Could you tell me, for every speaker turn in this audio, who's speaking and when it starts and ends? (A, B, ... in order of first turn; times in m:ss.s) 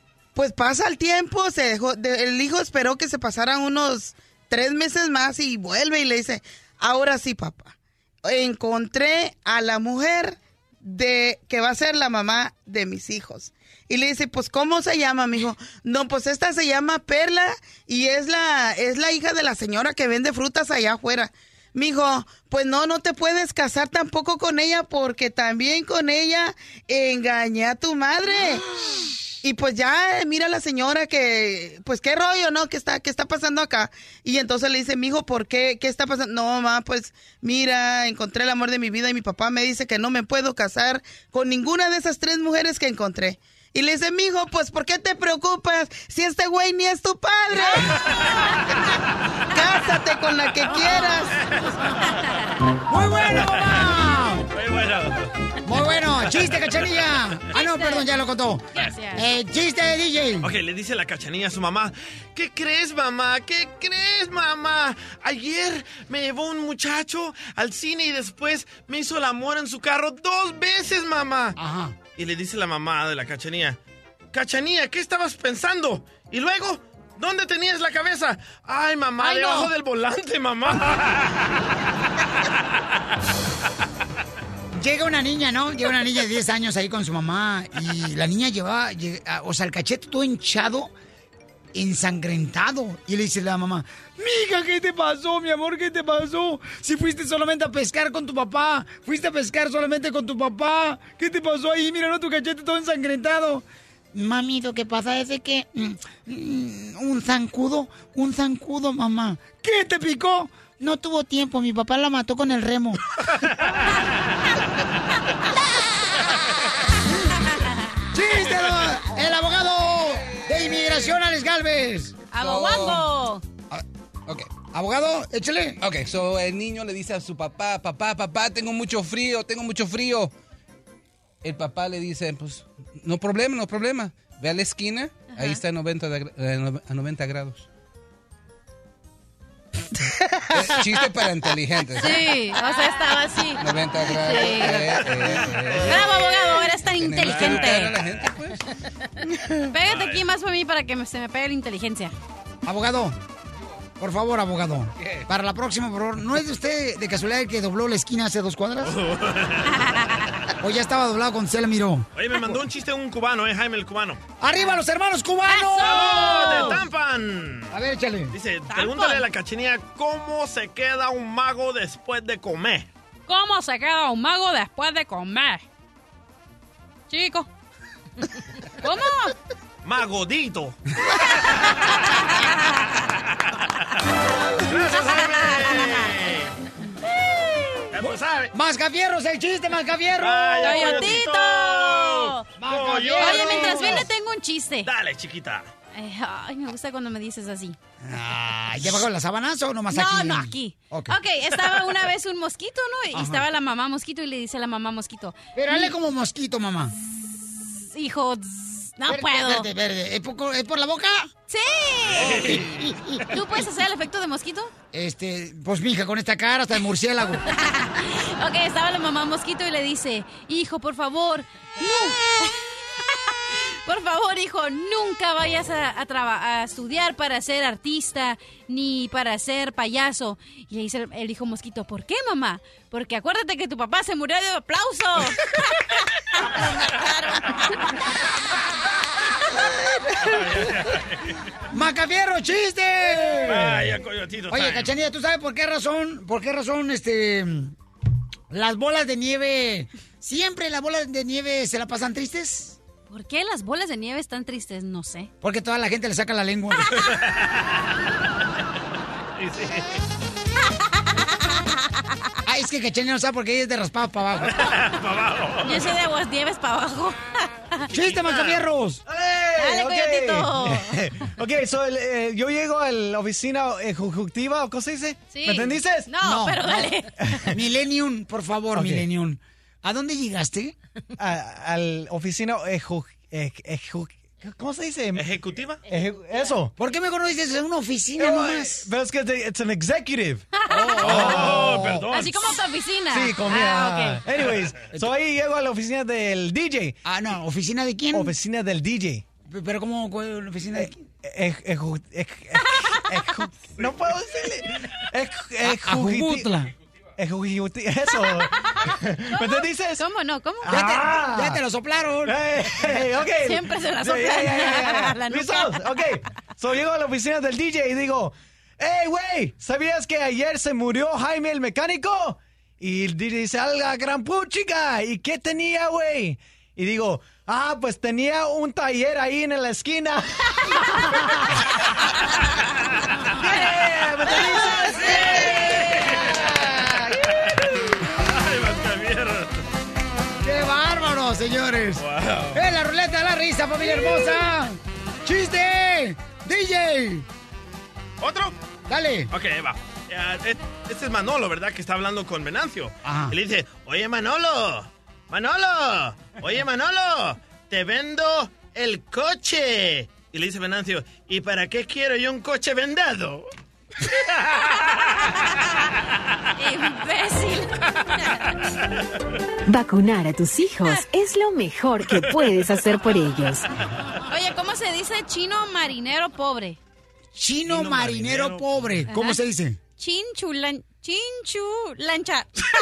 0:00.3-0:28.6 A
0:29.4-0:47.9 A
0:47.6-0:47.9 B
0:49.5-0:51.4 A
0:51.3-0:52.2 C
0:52.9-0:54.4 D
0:53.2-0:53.9 C
0:54.5-0:55.3 C
0:55.6-1:00.5 D
0:56.4-0:56.9 C
0:57.5-0:58.1 B
0:58.7-0:59.2 B
1:00.4-1:11.6 C
1:11.6-1:12.0 D
1:12.2-1:13.8 C
1:14.3-1:21.4 C
1:19.2-1:19.7 B
1:24.8-1:30.9 D
1:31.7-1:53.0 D
1:53.4-1:53.8 C
1:58.1-2:02.1 D
2:02.3-2:03.4 B
2:02.4-2:03.1 E
2:04.7-2:05.8 D
2:05.8-2:10.3 E
2:11.4-2:17.6 E
2:15.3-2:15.6 B
2:20.5-2:22.2 E
2:22.0-2:25.1 B
2:23.6-2:26.2 E
2:25.2-2:26.0 C
2:25.8-2:28.0 B
2:26.9-2:28.6 E
2:27.2-2:27.8 C
2:29.7-2:32.1 B
2:29.8-2:30.2 C
2:32.6-2:33.2 D
2:34.0-2:39.0 D
2:38.8-2:39.8 C
2:39.8-2:40.3 B
2:40.6-2:42.1 D
2:42.1-2:44.2 C
2:44.4-2:46.7 D
2:45.5-2:46.8 B
2:45.8-2:47.7 C
2:47.7-2:48.3 D
2:48.3-2:52.9 C
2:48.7-2:49.2 B
2:53.3-2:55.6 B
2:57.1-2:57.5 B
2:58.8-2:59.3 B
2:59.8-3:00.8 C
3:03.0-3:04.0 C
3:04.6-3:06.5 C
3:04.7-3:06.1 B
3:07.4-3:07.8 B
3:07.9-3:08.5 C
3:08.0-3:11.1 D
3:10.2-3:14.1 C
3:10.6-3:12.5 B
3:12.6-3:14.1 D
3:13.2-3:14.9 B
3:14.8-3:15.7 C
3:15.9-3:17.8 B
3:18.0-3:21.1 D
3:19.9-3:25.9 B
3:23.1-3:23.4 D
3:25.5-3:26.9 D
3:27.7-3:29.7 B
3:29.1-3:31.3 D
3:31.5-3:32.5 B
3:32.1-3:33.4 C
3:32.2-3:33.2 D
3:33.3-3:34.7 B
3:34.9-3:37.4 D
3:37.5-3:55.8 B
3:56.4-3:57.8 B
4:00.2-4:01.4 C
4:01.7-4:03.9 D
4:03.4-4:04.9 C
4:04.5-4:07.7 D
4:08.5-4:12.8 D
4:13.1-4:15.3 B
4:15.4-4:17.0 D
4:16.9-4:17.8 C
4:19.4-4:20.0 C
4:21.2-4:21.4 B
4:22.4-4:24.6 D
4:24.4-4:25.9 C
4:25.6-4:27.8 B
4:27.9-4:29.0 D
4:27.9-4:28.6 C
4:29.0-4:36.1 F
4:29.6-4:31.0 B
4:35.3-4:37.1 B
4:36.2-4:36.9 D
4:37.5-4:40.7 D
4:38.7-4:39.1 F
4:41.2-4:45.3 F
4:45.1-4:45.8 C
4:45.8-4:46.7 F
4:46.8-4:48.9 D
4:48.2-4:50.5 F
4:50.5-4:51.2 B
4:50.7-4:52.0 D
4:51.0-4:52.6 C
4:51.1-4:51.7 F
4:52.1-4:54.2 B
4:53.1-4:57.0 F
4:57.0-4:58.3 D
4:58.1-4:59.2 F
4:59.5-5:01.0 D
5:01.2-5:06.5 F
5:05.6-5:06.7 D
5:07.2-5:10.0 F
5:09.3-5:10.8 B
5:10.6-5:11.6 F
5:10.7-5:12.4 D
5:12.2-5:31.2 F
5:13.4-5:15.8 B
5:33.4-5:35.0 F
5:34.2-5:36.9 D
5:34.9-5:36.5 C
5:37.2-5:39.6 C
5:40.4-5:47.2 D
5:42.0-5:42.6 C
5:48.2-5:48.5 C
5:48.9-5:49.3 D
5:49.3-6:03.5 C
5:53.0-5:53.4 D
6:04.1-6:05.1 C
6:06.6-6:08.5 B
6:09.7-6:13.7 G
6:14.3-6:16.8 B
6:17.3-6:19.8 D
6:17.6-6:19.0 C
6:19.1-6:19.4 B
6:20.0-6:22.5 B